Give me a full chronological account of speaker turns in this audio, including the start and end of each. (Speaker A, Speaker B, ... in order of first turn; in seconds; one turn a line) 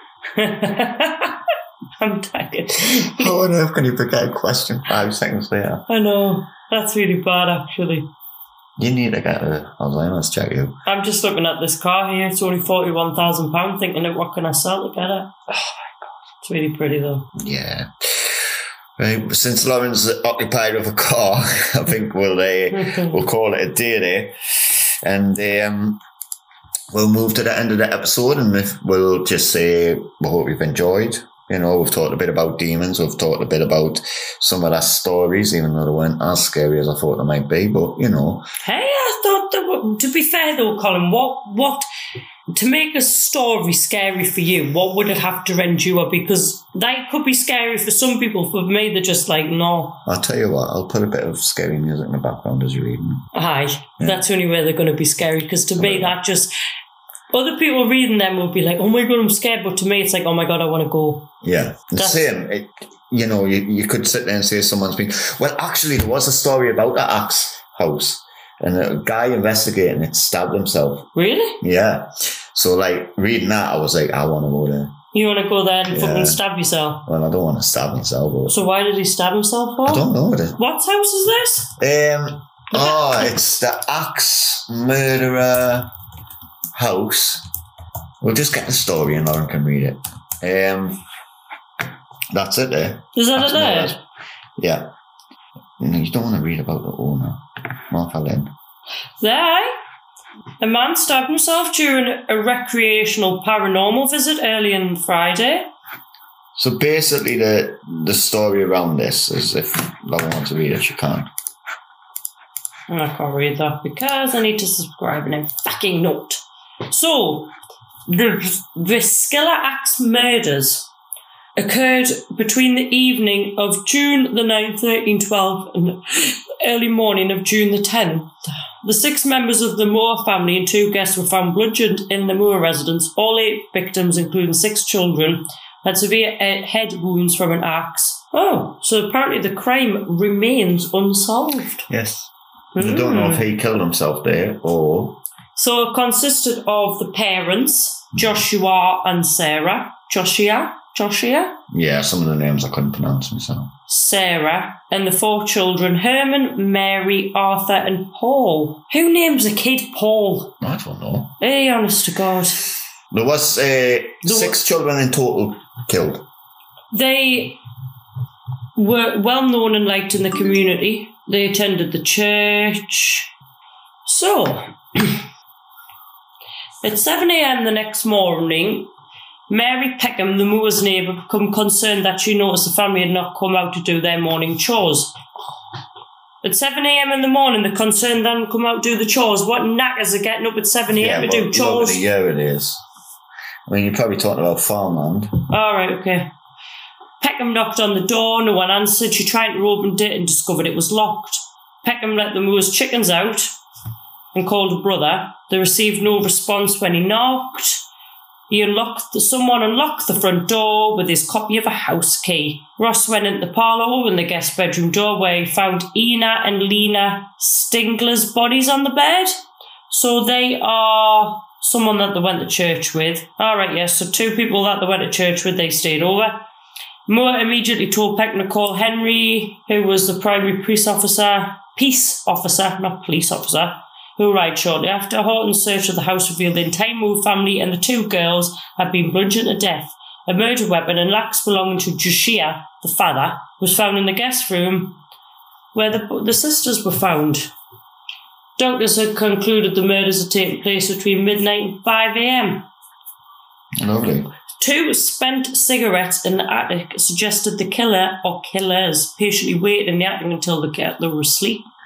Speaker A: 0.3-1.4
Speaker A: 2.0-3.4
Speaker B: 2.9-5.8
Speaker A: 5.9-8.1
Speaker B: 8.8-10.8
Speaker A: 10.8-17.3
Speaker B: 17.3-24.3
Speaker A: 22.7-23.2
Speaker B: 25.0-26.0
Speaker B: 26.9-38.4
Speaker A: 38.6-41.9
Speaker A: 42.5-50.0
Speaker B: 50.0-53.3
Speaker A: 53.3-56.5
Speaker B: 55.8-56.1
Speaker A: 57.3-61.3
Speaker B: 61.4-71.1
Speaker A: 62.0-62.2
Speaker A: 71.1-71.6
Speaker B: 71.6-74.9
Speaker A: 75.1-77.0
Speaker B: 75.9-76.4
Speaker B: 77.0-78.6
Speaker A: 78.5-81.7
Speaker B: 79.8-80.6
Speaker B: 81.8-85.9
Speaker A: 82.7-83.2
Speaker B: 86.7-87.4
Speaker B: 88.2-91.0
Speaker B: 92.3-94.0
Speaker A: 93.2-94.0
Speaker B: 94.6-94.9
Speaker B: 95.8-98.5
Speaker A: 99.2-99.7
Speaker A: 100.6-105.7
Speaker B: 106.5-111.3
Speaker A: 112.9-117.5
Speaker A: 118.1-120.9
Speaker A: 121.5-141.9
Speaker B: 141.9-145.2
Speaker A: 142.7-143.5
Speaker A: 145.5-151.6
Speaker B: 148.1-148.4
Speaker B: 151.7-153.7
Speaker A: 153.9-160.5
Speaker B: 160.6-161.3
Speaker A: 161.4-162.6
Speaker B: 163.1-166.2
Speaker A: 164.2-164.6
Speaker A: 166.9-167.6
Speaker A: 168.8-173.3
Speaker A: 174.0-175.2
Speaker A: 176.8-178.9
Speaker A: 179.5-185.1
Speaker A: 186.4-192.0
Speaker B: 190.9-192.8
Speaker B: 193.7-195.3
Speaker A: 195.5-196.3
Speaker A: 197.2-203.5
Speaker A: 204.3-207.8
Speaker A: 208.5-219.3
Speaker A: 219.9-226.4
Speaker A: 227.1-245.0
Speaker A: 245.7-247.5
Speaker A: 248.6-252.7
Speaker B: 253.8-254.3
Speaker A: 254.6-261.7